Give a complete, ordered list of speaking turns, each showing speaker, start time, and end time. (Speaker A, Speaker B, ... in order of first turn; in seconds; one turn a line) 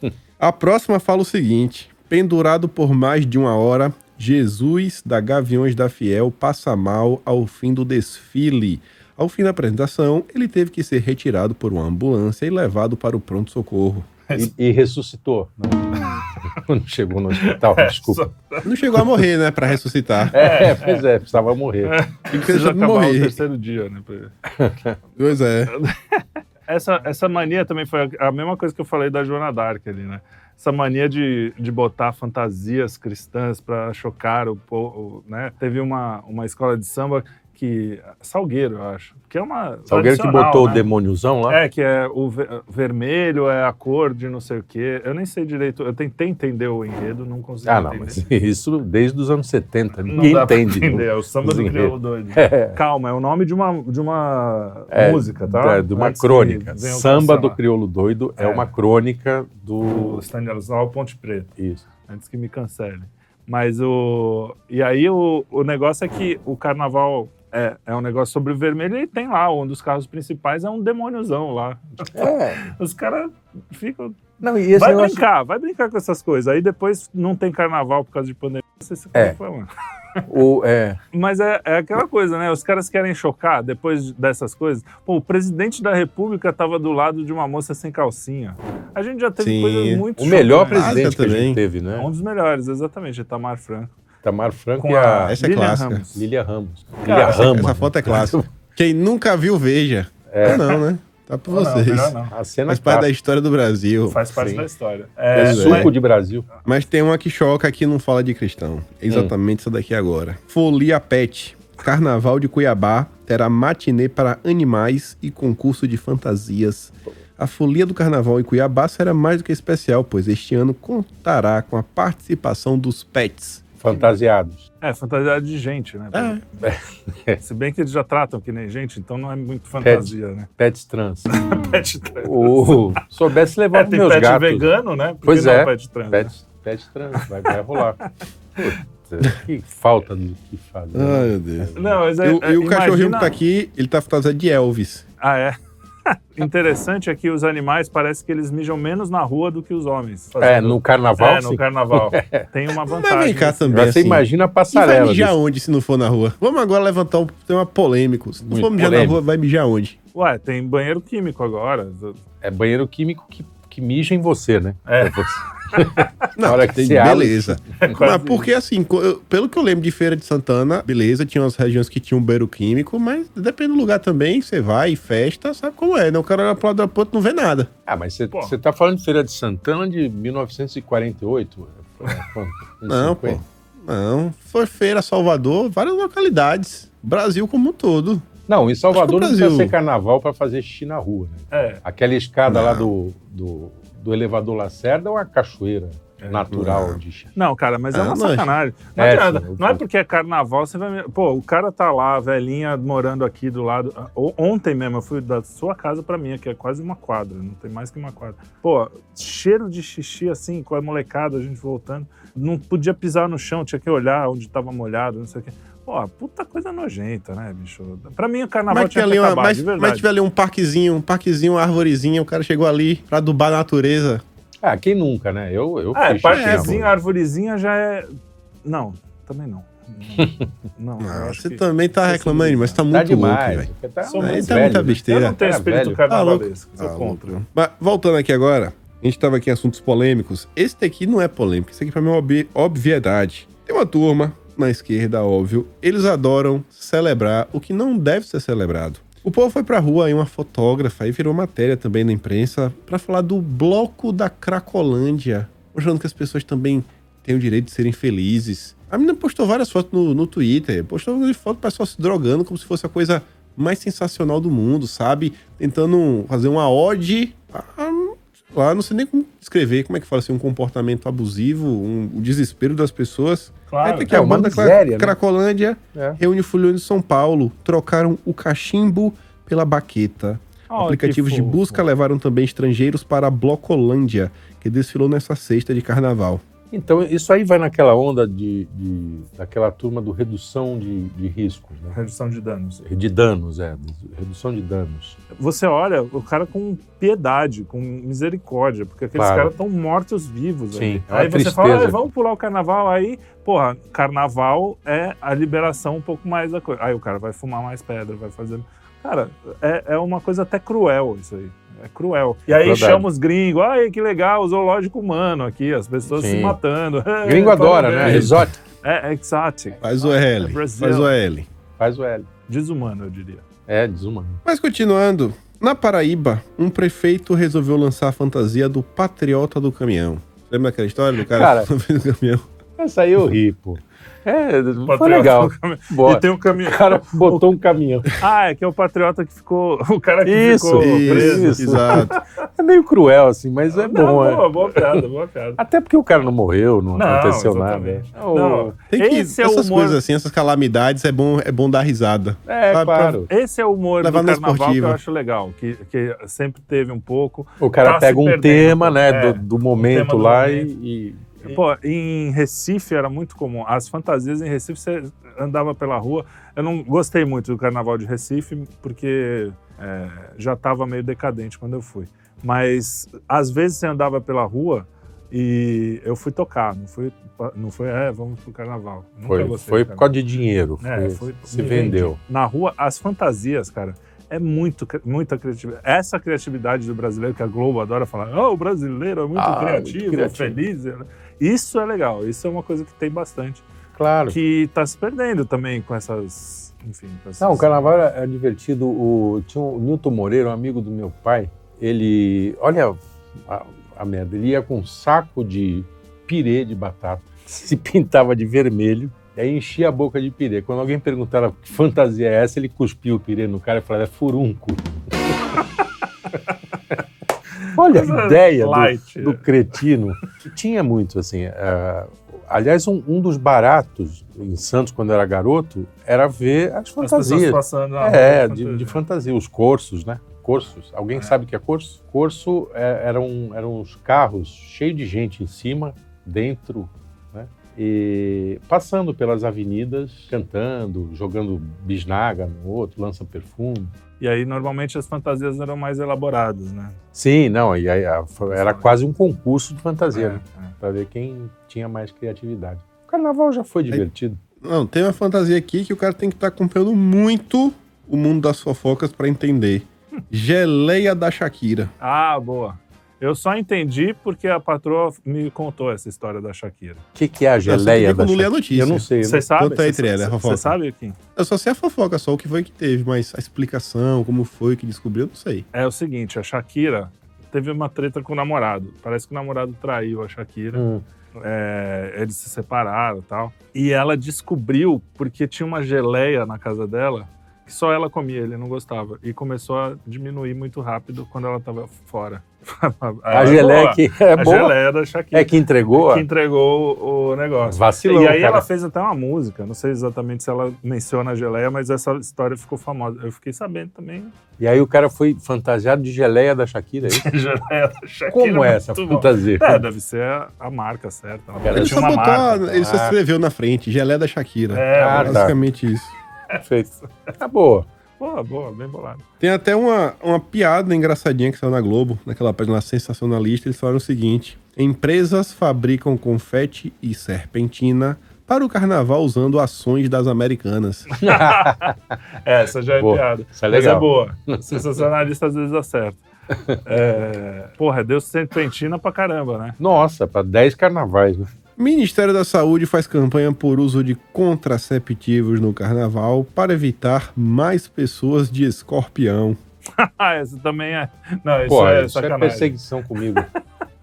Speaker A: 0.4-14.1
Speaker B: 14.3-18.2
Speaker C: 17.3-19.2
Speaker A: 18.6-20.4
Speaker B: 20.3-22.0
Speaker C: 20.3-21.0
Speaker C: 21.8-24.3
Speaker A: 22.3-23.4
Speaker B: 24.6-24.9
Speaker A: 25.2-25.7
Speaker C: 25.7-40.9
Speaker B: 39.9-41.6
Speaker C: 41.5-48.2
Speaker B: 47.6-52.8
Speaker C: 50.1-57.6
Speaker B: 54.9-60.2
Speaker C: 58.4-58.7
Speaker C: 59.9-61.5
Speaker B: 61.6-61.8
Speaker C: 62.1-80.2
Speaker B: 72.1-72.6
Speaker B: 74.4-75.2
Speaker B: 80.3-81.0
Speaker C: 81.1-91.2
Speaker A: 89.4-90.1
Speaker B: 90.2-92.1
Speaker A: 90.7-91.6
Speaker C: 91.9-93.9
Speaker B: 94.2-95.3
Speaker C: 94.8-96.3
Speaker A: 95.3-96.0
Speaker B: 96.1-98.5
Speaker C: 97.0-97.7
Speaker A: 97.2-102.2
Speaker B: 100.3-100.7
Speaker C: 100.5-100.8
Speaker C: 101.5-102.3
Speaker B: 102.3-103.1
Speaker A: 102.7-104.2
Speaker C: 104.1-105.9
Speaker B: 104.3-104.7
Speaker A: 105.3-105.9
Speaker B: 105.3-106.5
Speaker A: 106.6-123.6
Speaker B: 123.8-124.6
Speaker C: 124.8-126.5
Speaker A: 126.1-126.4
Speaker B: 126.6-127.4
Speaker C: 127.4-130.5
Speaker B: 129.8-134.7
Speaker C: 131.3-133.0
Speaker C: 133.7-136.3
Speaker B: 135.2-142.0
Speaker C: 137.5-137.8
Speaker A: 140.9-145.0
Speaker C: 141.8-143.3
Speaker C: 145.2-145.6
Speaker C: 146.1-154.0
Speaker B: 150.4-152.4
Speaker A: 152.8-159.9
Speaker B: 153.7-155.3
Speaker B: 158.5-159.2
Speaker C: 160.1-162.2
Speaker B: 162.4-167.6
Speaker C: 164.8-165.2
Speaker C: 165.7-166.0
Speaker A: 166.4-177.7
Speaker C: 167.8-168.5
Speaker B: 177.9-183.4
Speaker A: 182.9-188.3
Speaker B: 188.5-197.3
Speaker A: 188.9-189.7
Speaker C: 191.5-191.8
Speaker A: 192.5-192.9
Speaker C: 196.2-196.4
Speaker A: 196.5-197.0
Speaker C: 197.3-220.0
Speaker A: 197.9-198.5
Speaker B: 198.9-199.8
Speaker A: 218.7-224.2
Speaker B: 224.6-226.9
Speaker C: 225.9-228.1
Speaker A: 226.3-226.9
Speaker C: 228.6-232.8
Speaker B: 230.2-230.4
Speaker A: 231.0-235.4
Speaker B: 232.9-236.0
Speaker C: 234.0-237.4
Speaker A: 236.1-286.4
Speaker C: 273.7-274.3
Speaker B: 274.1-275.1
Speaker B: 275.9-276.2
Speaker C: 280.7-281.8
Speaker B: 286.7-291.9
Speaker C: 291.9-292.8
Speaker B: 292.8-295.2
Speaker C: 295.3-319.8
Speaker B: 299.1-299.5
Speaker B: 300.7-302.0
Speaker B: 312.5-313.1
Speaker B: 316.1-316.6
Speaker B: 317.2-318.5
Speaker A: 318.0-318.4
Speaker A: 319.8-321.5
Speaker C: 320.4-321.1
Speaker B: 321.8-322.3
Speaker C: 322.5-323.4
Speaker B: 323.7-324.4
Speaker A: 324.4-332.5
Speaker B: 331.3-331.7
Speaker B: 332.8-338.2
Speaker C: 334.8-337.5
Speaker C: 338.1-342.1
Speaker B: 340.2-345.0
Speaker A: 340.8-342.1
Speaker C: 343.7-345.6
Speaker B: 345.6-348.7
Speaker C: 346.9-350.0
Speaker A: 348.9-353.2
Speaker B: 352.5-353.3
Speaker C: 353.3-360.7
Speaker A: 354.0-355.0
Speaker B: 357.6-361.6
Speaker C: 361.4-380.1
Speaker B: 379.3-382.2
Speaker C: 380.8-393.6
Speaker B: 389.4-390.6
Speaker B: 393.9-394.4
Speaker C: 394.3-397.9
Speaker B: 397.4-415.0
Speaker C: 417.8-419.8
Speaker B: 417.8-443.9
Speaker C: 427.0-429.0
Speaker C: 444.2-446.9
Speaker B: 447.1-454.4
Speaker C: 448.5-448.9
Speaker C: 450.1-450.7
Speaker A: 454.6-461.9
Speaker C: 462.0-467.0
Speaker B: 467.1-469.5
Speaker A: 467.6-470.7
Speaker C: 469.2-471.1
Speaker A: 471.4-475.6
Speaker C: 475.7-480.8
Speaker B: 480.7-481.0
Speaker C: 481.4-504.3
Speaker B: 493.3-494.8
Speaker B: 495.3-496.2
Speaker B: 497.7-498.6
Speaker B: 504.6-507.3
Speaker C: 507.1-512.6
Speaker B: 508.3-509.8
Speaker B: 511.6-513.1
Speaker A: 511.7-516.1
Speaker C: 514.7-515.5
Speaker B: 514.9-515.5
Speaker B: 516.6-517.9
Speaker C: 518.2-519.2
Speaker A: 519.4-531.1
Speaker B: 531.2-532.0
Speaker C: 531.2-536.2
Speaker B: 533.0-534.9
Speaker B: 536.5-536.8
Speaker C: 536.8-539.8
Speaker B: 539.8-541.5
Speaker A: 541.8-549.6
Speaker C: 550.0-553.5
Speaker B: 551.7-553.5